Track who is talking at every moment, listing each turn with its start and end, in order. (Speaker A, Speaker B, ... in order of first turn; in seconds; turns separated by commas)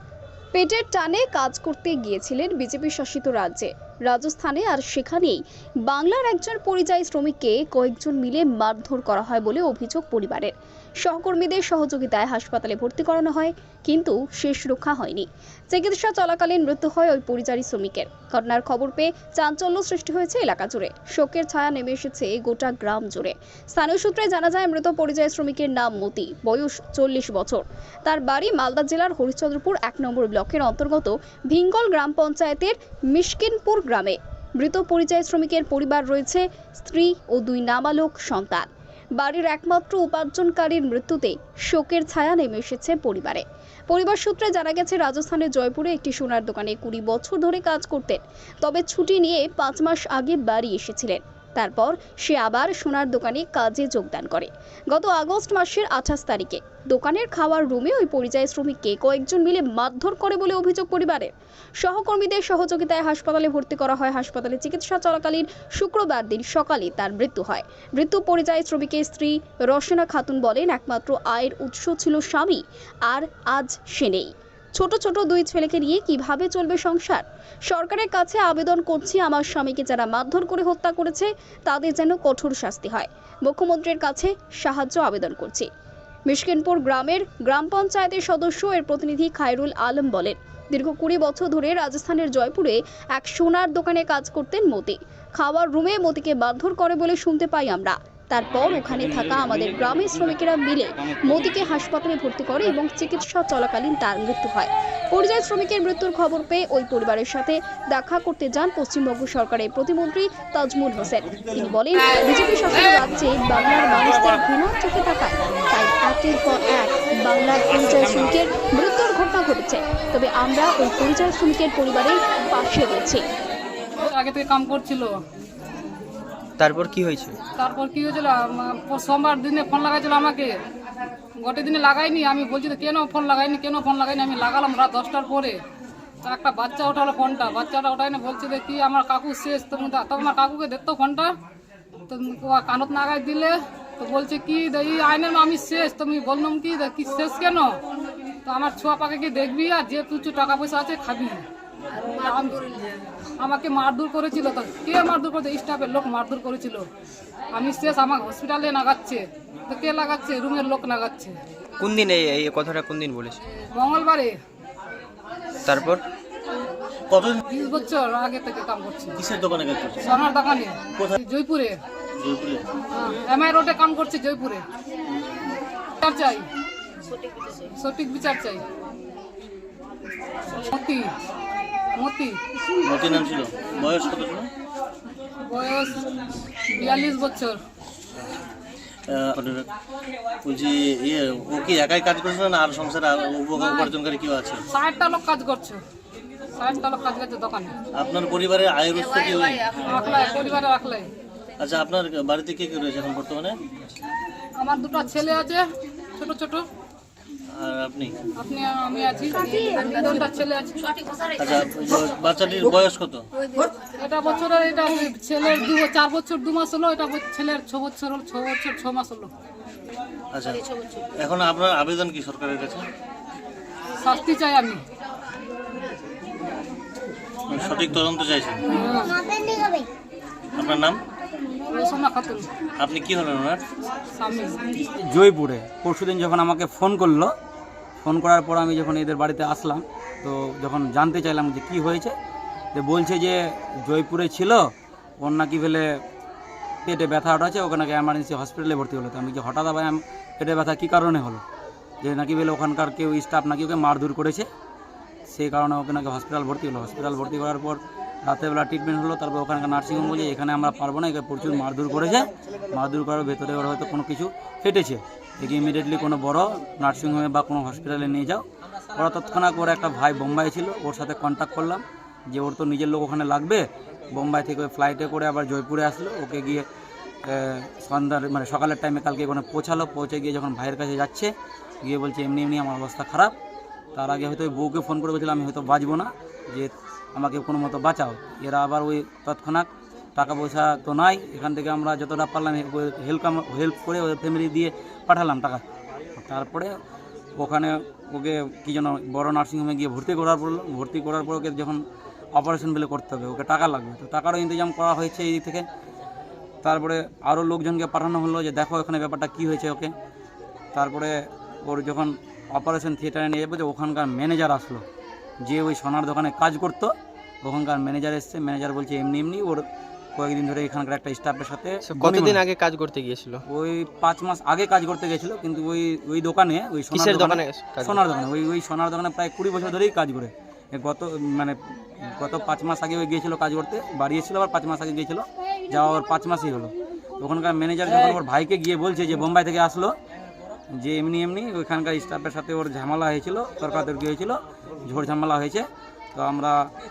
Speaker A: 0.5-85.7, Speaker A: 86.3-123.2, Speaker B: 98.5-101.7, Speaker B: 117.7-118.3, Speaker C: 124.0-125.2, Speaker D: 126.6-127.4, Speaker C: 127.6-130.6, Speaker C: 131.4-135.6, Speaker C: 136.2-141.3, Speaker C: 142.1-147.8, Speaker C: 148.5-151.5, Speaker C: 152.1-152.8, Speaker C: 153.4-156.9, Speaker C: 157.5-161.4, Speaker D: 161.8-163.4, Speaker C: 163.7-164.4, Speaker D: 165.7-166.0, Speaker E: 167.1-167.4, Speaker C: 167.5-169.2, Speaker E: 169.2-170.1, Speaker C: 170.0-171.8, Speaker E: 172.2-172.7, Speaker C: 172.9-174.7, Speaker C: 176.0-176.5, Speaker C: 177.8-178.7, Speaker C: 180.6-181.1, Speaker C: 182.0-182.4, Speaker E: 182.8-184.5, Speaker C: 185.4-186.1, Speaker C: 186.8-187.6, Speaker E: 189.1-189.7, Speaker E: 190.4-194.6, Speaker C: 193.6-193.9, Speaker C: 194.7-195.8, Speaker C: 196.6-197.7, Speaker E: 197.9-200.5, Speaker C: 199.8-201.1, Speaker E: 201.6-203.6, Speaker C: 204.6-205.6, Speaker C: 206.2-206.6, Speaker E: 207.5-208.2, Speaker C: 208.4-211.0, Speaker E: 211.4-213.3, Speaker C: 214.0-219.3, Speaker E: 220.3-220.6, Speaker E: 221.2-222.9, Speaker C: 224.0-224.8, Speaker E: 227.5-228.6, Speaker C: 228.7-229.2, Speaker E: 230.6-231.0, Speaker C: 231.7-232.5, Speaker E: 232.8-233.6, Speaker C: 234.2-234.8, Speaker B: 234.8-237.3, Speaker B: 238.0-242.1, Speaker B: 242.7-244.7, Speaker B: 245.2-246.0, Speaker B: 246.8-251.4, Speaker B: 252.0-254.5, Speaker B: 255.3-276.6, Speaker B: 277.2-283.4, Speaker B: 283.9-295.6, Speaker B: 296.2-296.7, Speaker B: 297.4-301.8, Speaker B: 302.3-305.7, Speaker B: 306.6-309.9, Speaker B: 310.7-314.8, Speaker B: 315.4-319.6, Speaker B: 320.2-322.4, Speaker D: 321.9-323.4, Speaker B: 323.5-339.9, Speaker D: 326.9-328.0, Speaker B: 340.8-346.6